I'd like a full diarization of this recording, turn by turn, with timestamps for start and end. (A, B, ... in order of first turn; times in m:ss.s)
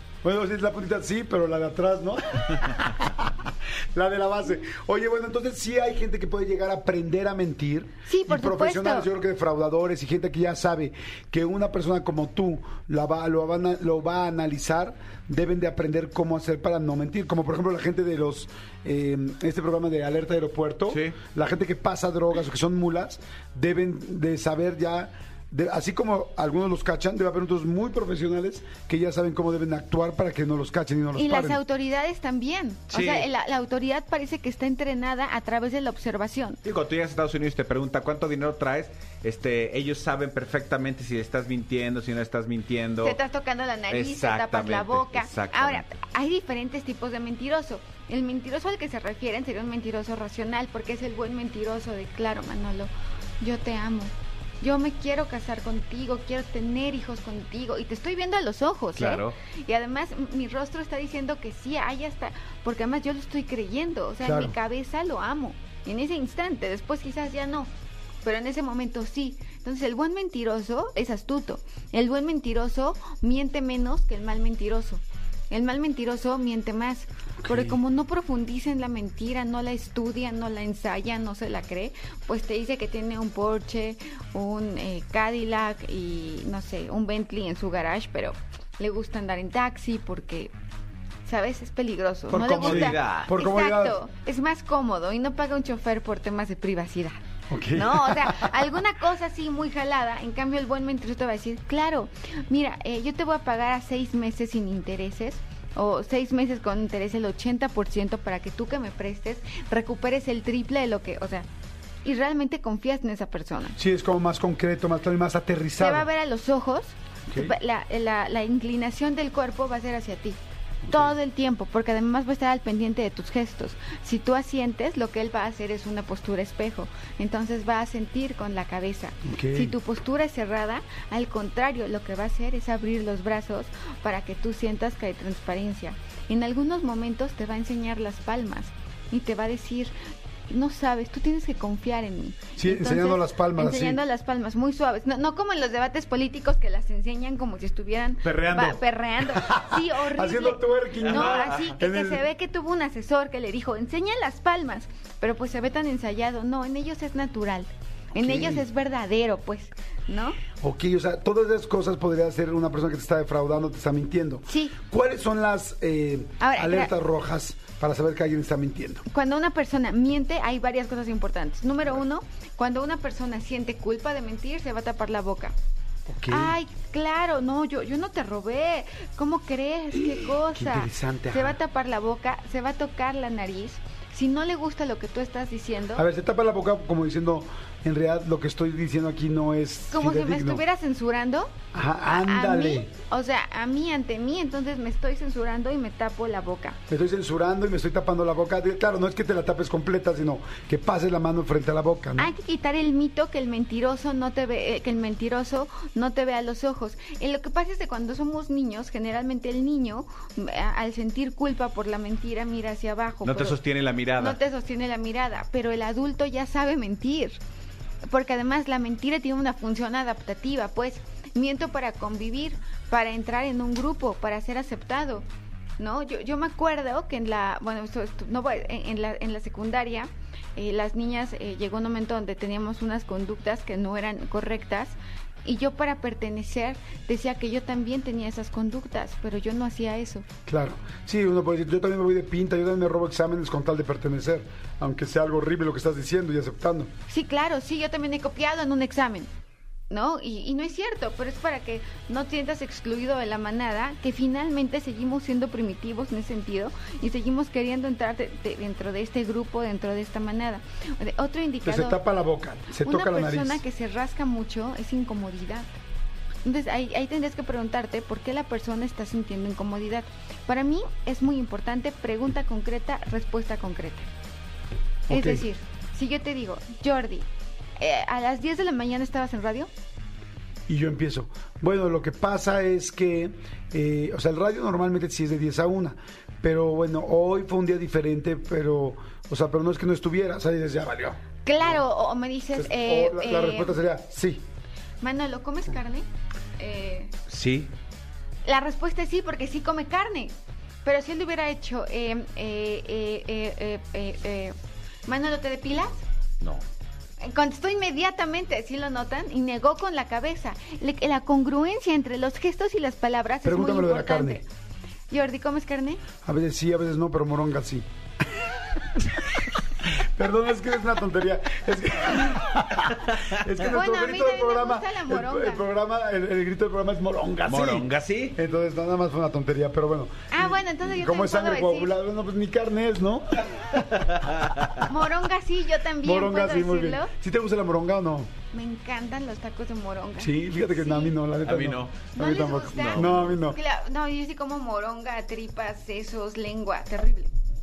0:00.2-0:31.6 A
0:08.0-0:09.1 B
0:20.9-0:21.2 C
0:31.1-0:36.6 B
0:32.9-0:33.3 C
0:36.6-0:43.2 C
0:43.0-1:07.7 B
0:43.9-0:45.9 C
0:59.0-0:59.3 C
1:04.2-1:04.5 A
1:08.2-1:30.5 B
1:17.4-1:17.8 A
1:31.2-1:37.2 B
1:32.3-1:34.0 A
1:32.6-1:33.3 C
1:37.5-1:38.6 A
1:37.7-1:51.5 B
1:52.0-1:53.8 B
1:53.8-1:56.1 A
1:55.8-2:19.9 B
2:00.8-2:01.1 A
2:09.2-2:09.8 A
2:20.5-2:40.4 B
2:22.6-2:24.0 A
2:28.2-2:28.8 C
2:29.4-2:32.2 A
2:31.0-2:31.6 C
2:38.1-2:38.6 A
2:40.6-2:49.0 A
2:44.4-2:44.8 B
2:46.4-2:46.9 B
2:49.1-2:55.5 B
2:56.1-2:56.6 A
2:56.3-3:06.0 B
2:59.9-3:01.6 A
3:05.9-3:10.6 A
3:09.9-3:11.5 B
3:11.7-3:12.9 A
3:12.0-3:16.8 B
3:16.9-3:22.3 A
3:22.2-3:33.6 B
3:33.2-3:34.4 C
3:34.2-3:37.4 B
3:38.1-3:45.2 B
3:45.8-4:00.2 B
4:00.5-4:06.9 A
4:07.1-4:09.3 B
4:09.9-4:22.0 B
4:21.6-4:23.6 A
4:22.8-4:25.8 B
4:26.4-4:34.1 B
4:35.1-4:35.4 A
4:35.1-4:37.2 B
4:37.8-4:39.7 B
4:40.7-4:51.8 A
4:51.4-4:53.8 B
4:52.6-4:54.4 A
4:55.0-4:56.0 B
4:56.6-4:57.1 B
4:57.3-4:57.7 C
4:58.4-5:00.3 B
5:00.8-5:04.5 B
5:05.0-5:06.0 B
5:07.2-5:14.4 B
5:13.4-5:14.4 A
5:15.1-5:16.0 B
5:16.2-5:17.8 A
5:18.8-5:33.8 A
5:23.1-5:23.4 C
5:23.6-5:25.6 B
5:27.5-5:28.4 C
5:30.3-5:32.0 B
5:33.9-5:34.8 C
5:34.8-5:37.1 B
5:36.0-5:38.3 A
5:38.5-5:41.2 B
5:40.2-5:43.6 A
5:41.4-5:43.2 C
5:42.1-5:47.3 B